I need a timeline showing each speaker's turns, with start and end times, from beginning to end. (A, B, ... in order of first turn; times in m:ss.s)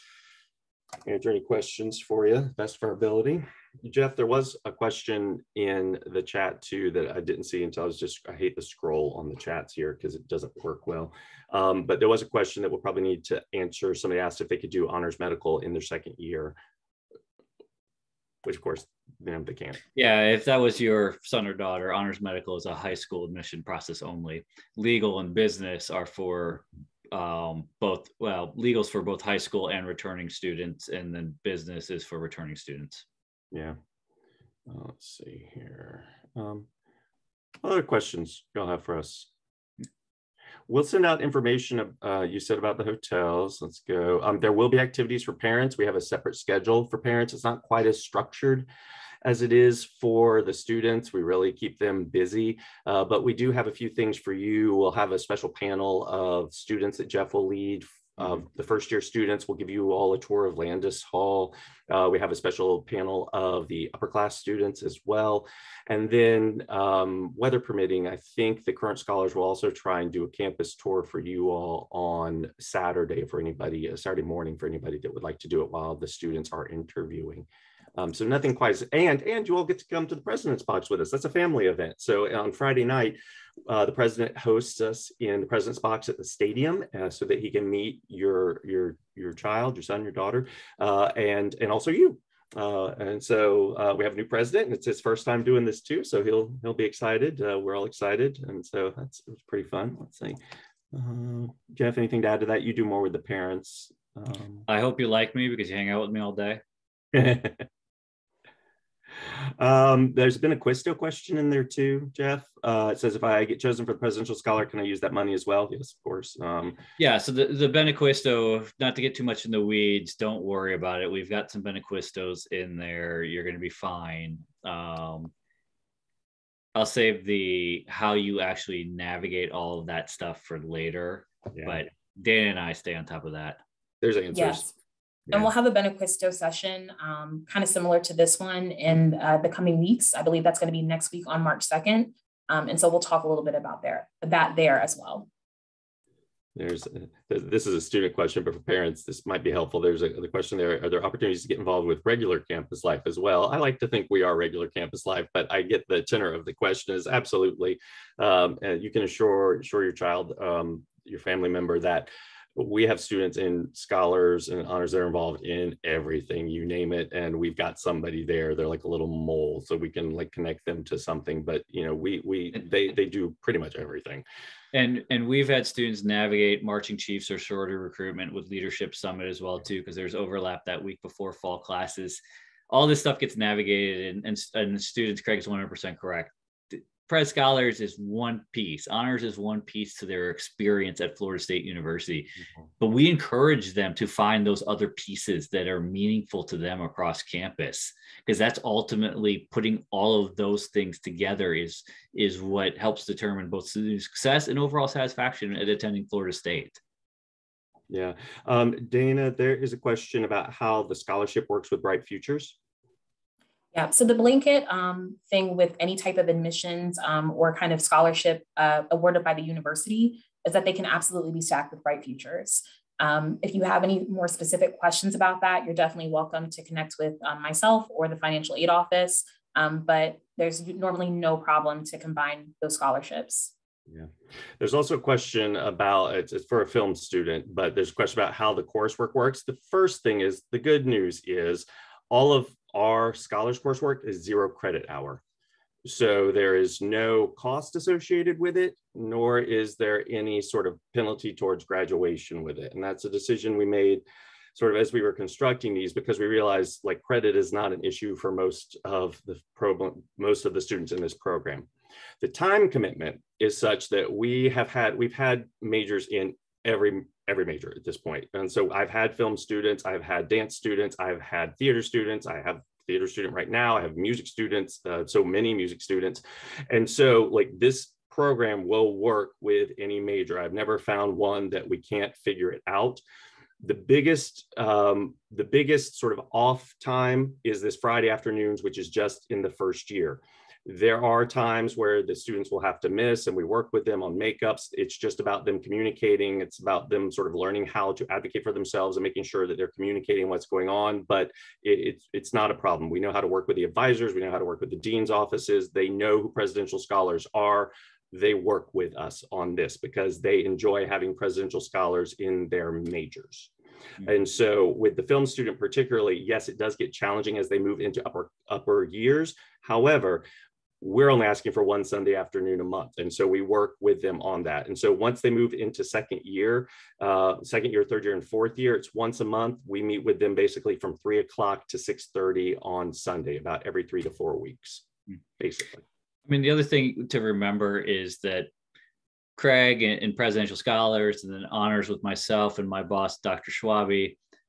0:01.0-0:16.6 A
0:18.4-0:19.8 A
0:19.9-0:33.0 B
0:33.5-0:33.8 A
0:34.7-0:36.7 A
0:37.6-0:39.3 A
0:40.7-0:48.7 A
0:49.2-1:23.2 A
1:23.7-1:40.4 A
1:40.9-1:44.7 A
1:44.7-1:46.6 B
1:47.1-1:47.6 A
1:49.3-1:56.8 A
1:57.0-2:05.3 B
2:06.7-2:13.6 B
2:11.5-2:11.8 A
2:14.0-2:14.7 A
2:14.3-2:14.7 C
2:15.3-2:25.3 C
2:26.6-2:54.2 A
2:54.7-3:26.8 B
3:12.4-3:12.7 A
3:27.9-3:32.6 A
3:33.7-3:53.5 C
3:53.9-4:05.2 A
4:05.9-4:14.0 A
4:14.6-4:21.7 A
4:22.2-4:43.0 A
4:43.6-5:13.5 A
5:14.0-5:20.3 A
5:20.8-5:34.8 A
5:35.4-5:35.8 A
5:36.3-5:38.5 B
5:39.4-5:44.2 B